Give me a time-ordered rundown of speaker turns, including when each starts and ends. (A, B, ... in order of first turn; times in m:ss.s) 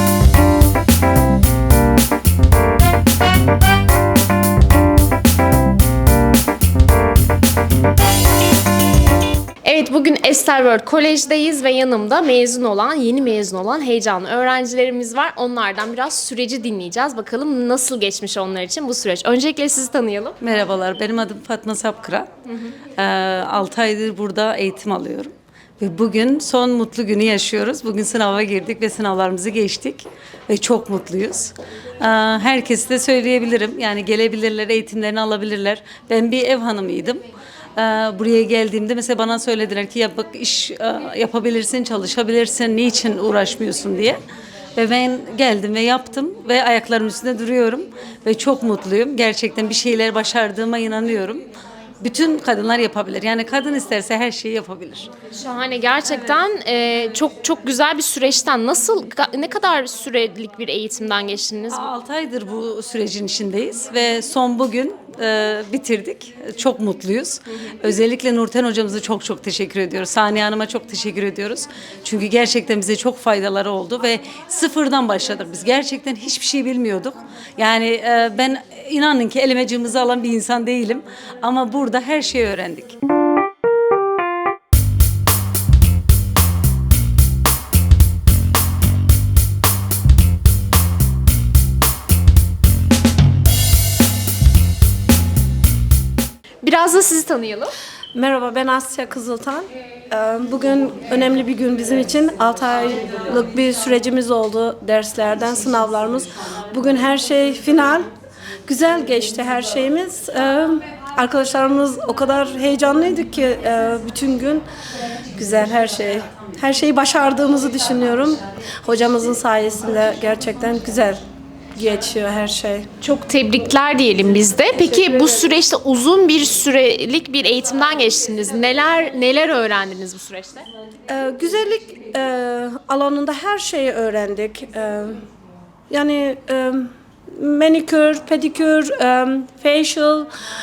0:09.6-0:20.4 A
0:20.4-0:22.3 B
0:23.0-0:37.2 B
0:37.8-0:44.2 B
0:44.8-0:51.4 B
0:52.0-0:55.1 B
0:55.3-1:01.8 A
1:01.7-1:23.0 B
1:36.6-1:37.7 A
1:38.1-1:48.1 C
1:48.6-1:54.6 C
1:55.3-2:01.2 C
2:01.7-2:02.9 C
2:03.0-2:10.6 A
2:11.1-2:15.2 C
2:15.9-2:20.3 C